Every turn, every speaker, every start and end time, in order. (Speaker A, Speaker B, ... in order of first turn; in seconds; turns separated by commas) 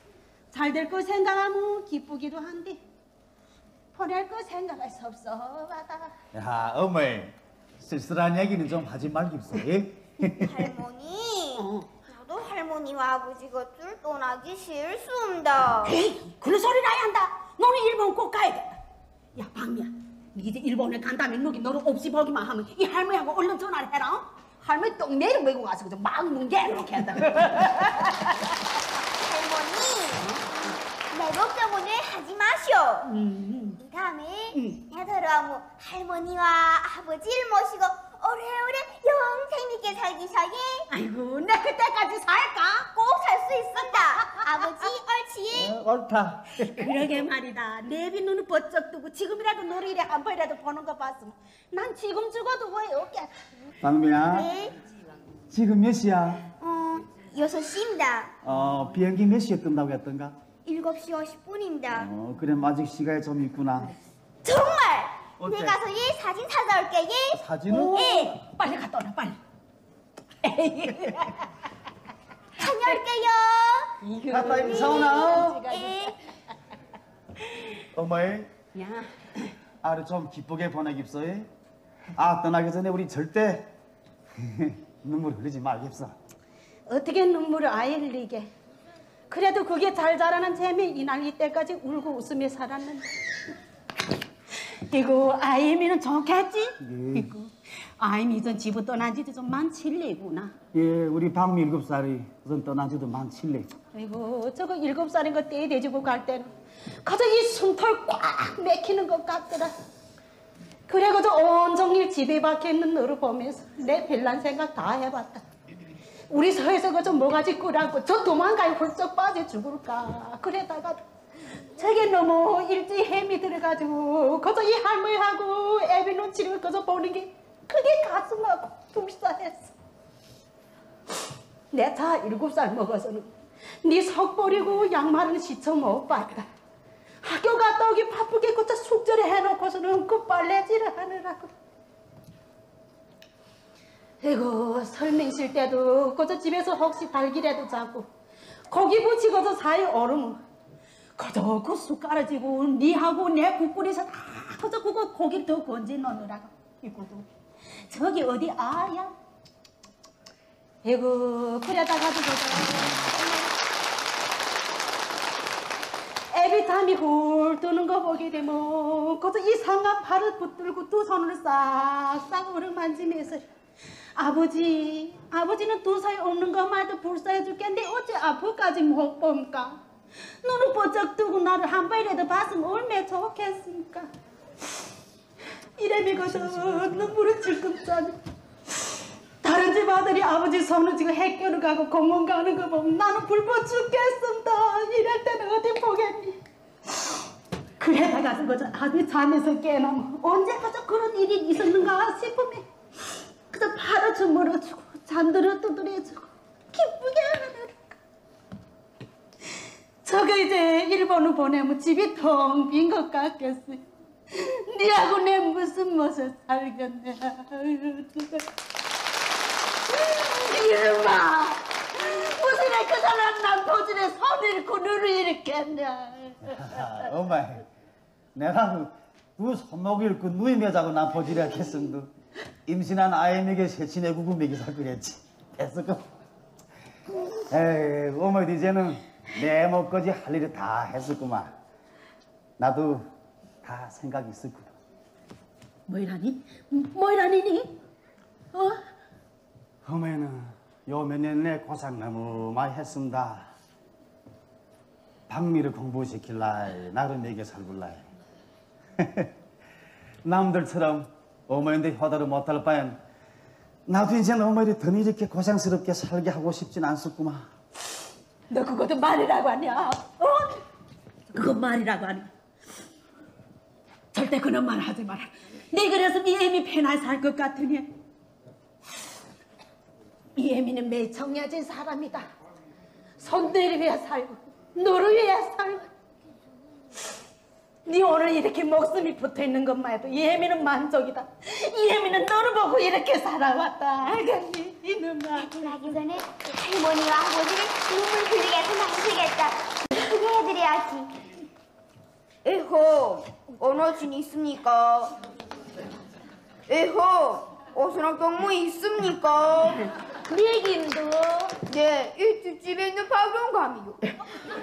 Speaker A: 0.5-2.8, Speaker A: 3.9-6.1, Speaker B: 6.3-10.7, Speaker C: 10.3-15.9, Speaker A: 11.6-11.9, Speaker A: 15.8-18.8, Speaker A: 19.3-28.6, Speaker C: 29.2-33.1, Speaker A: 30.2-30.7, Speaker A: 33.0-33.8, Speaker C: 33.8-40.9, Speaker A: 34.5-34.8, Speaker A: 40.9-42.9, Speaker C: 42.9-45.8, Speaker A: 43.8-44.9, Speaker B: 45.5-46.9, Speaker A: 46.6-53.5, Speaker B: 53.8-54.5, Speaker C: 54.3-54.7, Speaker B: 55.5-56.5, Speaker C: 56.6-58.3, Speaker B: 58.4-60.4, Speaker C: 60.6-62.1, Speaker B: 61.9-63.9, Speaker C: 64.4-67.4, Speaker B: 65.4-65.8, Speaker B: 67.3-68.0, Speaker A: 67.7-69.4, Speaker C: 67.9-68.4, Speaker A: 70.4-71.5, Speaker C: 72.6-73.9, Speaker A: 72.6-73.0, Speaker A: 74.0-76.2, Speaker B: 74.3-75.5, Speaker C: 74.5-76.2, Speaker B: 77.8-78.5, Speaker A: 78.7-79.5, Speaker B: 79.8-81.5, Speaker B: 82.2-83.7, Speaker B: 84.4-86.1, Speaker A: 86.9-88.5, Speaker A: 89.3-93.1, Speaker A: 94.6-100.5, Speaker B: 96.8-97.3, Speaker B: 100.7-103.7, Speaker A: 103.9-106.5, Speaker A: 107.0-109.7, Speaker A: 110.9-115.4, Speaker A: 116.3-121.0, Speaker A: 121.6-129.7, Speaker A: 131.7-133.3, Speaker A: 133.8-136.5, Speaker A: 137.2-141.5, Speaker A: 144.2-148.1, Speaker A: 148.7-150.4, Speaker A: 151.2-159.1, Speaker A: 160.8-163.1, Speaker A: 166.3-173.4, Speaker A: 174.2-179.8, Speaker A: 180.4-184.1, Speaker A: 185.8-188.2, Speaker B: 186.3-187.1, Speaker A: 189.4-196.4, Speaker A: 197.8-202.6, Speaker A: 203.5-207.9, Speaker A: 210.0-218.5, Speaker A: 219.9-227.1, Speaker B: 226.4-227.7, Speaker B: 228.3-232.1, Speaker B: 232.7-236.0, Speaker B: 237.5-241.5, Speaker B: 242.6-243.0, Speaker B: 243.6-244.7, Speaker A: 245.9-247.8, Speaker A: 248.5-248.8, Speaker B: 249.8-253.5, Speaker B: 255.3-258.1, Speaker B: 259.0-259.3, Speaker B: 260.2-263.0, Speaker B: 263.9-267.5, Speaker A: 268.5-270.6, Speaker A: 271.3-272.3, Speaker A: 274.1-277.9, Speaker A: 280.4-282.3, Speaker A: 283.2-285.9, Speaker A: 287.9-295.7, Speaker C: 295.4-301.1, Speaker C: 302.4-305.1, Speaker C: 306.7-309.8, Speaker A: 310.3-311.6, Speaker C: 311.6-314.0